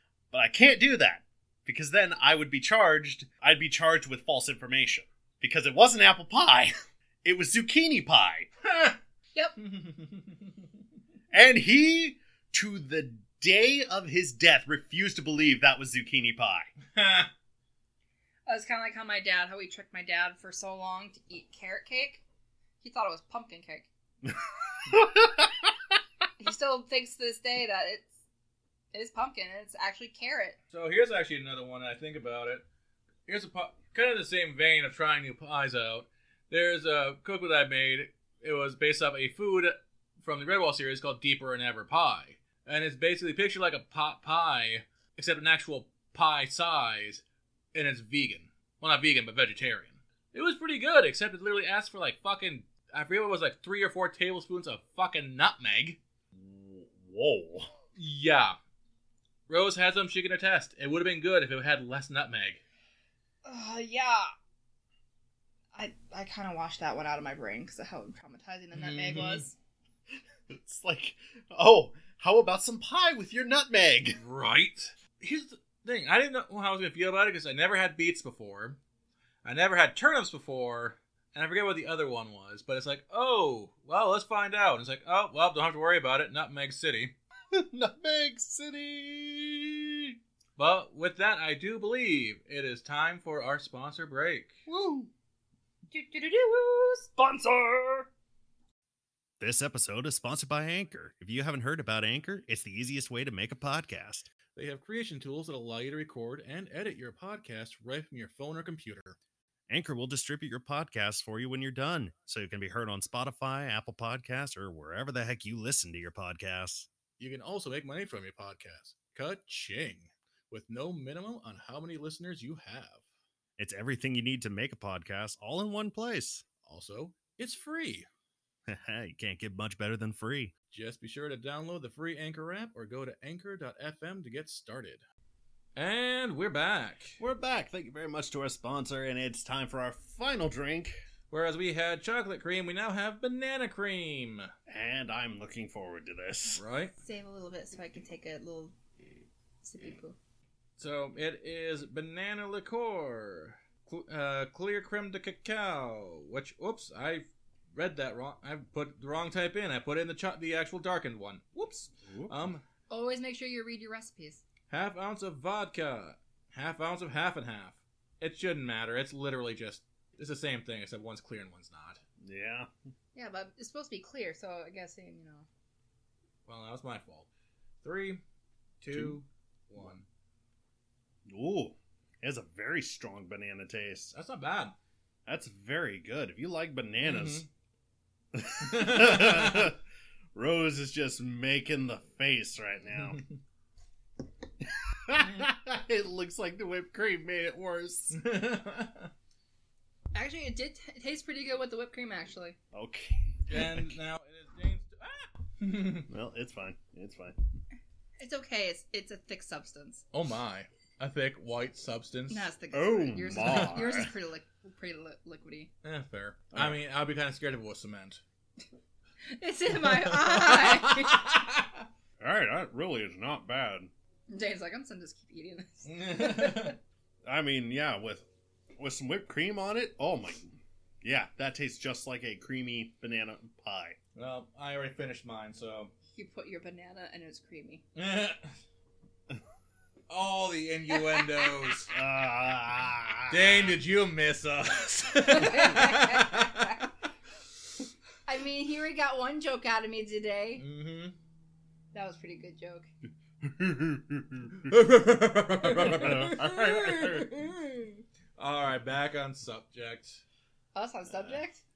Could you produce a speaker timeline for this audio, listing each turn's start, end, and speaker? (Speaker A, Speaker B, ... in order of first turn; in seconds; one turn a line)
Speaker A: 0.3-6.7
Speaker A: 7.2-8.5
Speaker B: 9.6-10.5
Speaker A: 11.3-16.7
Speaker B: 16.9-17.3
Speaker C: 18.5-22.2
Speaker C: 22.8-23.9
Speaker A: 24.9-25.7
Speaker C: 26.4-28.1
Speaker C: 28.9-30.6
Speaker B: 30.7-32.6
Speaker B: 33.3-47.2
Speaker B: 47.7-56.0
Speaker A: 56.3-57.7
Speaker B: 58.0-58.6
Speaker B: 59.5-62.6
Speaker C: 63.4-64.3
Speaker C: 65.7-69.6
Speaker B: 68.7-69.5
Speaker A: 70.5-74.2
Speaker B: 74.2-78.8
Speaker B: 79.4-87.1
Speaker A: 87.5-90.2
Speaker B: 90.6-94.5
Speaker A: 94.7-95.1
Speaker C: 95.9-97.1
Speaker A: 97.2-98.1
Speaker A: 99.4-104.3
Speaker B: 104.5-109.2
Speaker A: 109.7-116.9
Speaker B: 117.2-123.0
Speaker A: 123.6-126.5
Speaker B: 126.6-128.1
Speaker A: 128.7-130.5
Speaker B: 130.7-135.0
Speaker B: 135.8-137.2
Speaker A: 137.2-141.0
Speaker B: 141.3-144.5
Speaker A: 144.7-146.6
Speaker B: 146.5-146.9
Speaker C: 147.0-148.8
Speaker C: 149.6-150.2
Speaker B: 150.8-162.6
Speaker A: 162.1-162.4
Speaker C: 162.9-164.4
Speaker B: 164.7-172.0
Speaker A: 172.2-172.7
Speaker C: 173.1-175.5
Speaker B: 176.5-177.3
Speaker B: 177.8-178.2
Speaker B: 178.8-180.1
Speaker A: 178.9-179.2
Speaker A: 181.3-184.1
Speaker B: 184.1-184.8
Speaker A: 185.3-187.5
Speaker B: 187.0-187.5
Speaker A: 188.3-189.8
Speaker B: 188.7-189.7
Speaker A: 190.3-193.2
Speaker A: 194.6-198.2
Speaker B: 198.1-199.1
Speaker C: 200.1-202.6
Speaker A: 202.7-203.9
Speaker B: 203.5-206.1
Speaker A: 206.1-207.4
Speaker C: 208.2-210.0
Speaker B: 210.1-212.5
Speaker C: 212.3-215.7
Speaker A: 212.7-214.1
Speaker B: 213.4-213.9
Speaker B: 215.8-218.2
Speaker C: 219.3-221.3
Speaker B: 219.8-221.8
Speaker A: 222.2-223.9
Speaker C: 224.3-226.8
Speaker B: 225.8-226.8
Speaker A: 227.3-228.3
Speaker A: 228.8-234.0
Speaker B: 234.2-235.9
Speaker C: 236.1-237.8
Speaker B: 238.0-238.5
Speaker B: 240.1-241.9
Speaker A: 241.9-243.8
Speaker B: 243.3-246.8
Speaker C: 245.2-246.8
Speaker C: 248.3-250.6
Speaker B: 250.6-251.2
Speaker C: 251.9-252.9
Speaker A: 253.6-254.4
Speaker B: 254.7-257.3
Speaker A: 255.7-257.4
Speaker C: 257.2-258.0
Speaker B: 258.4-260.2
Speaker C: 260.7-261.6
Speaker A: 261.1-261.4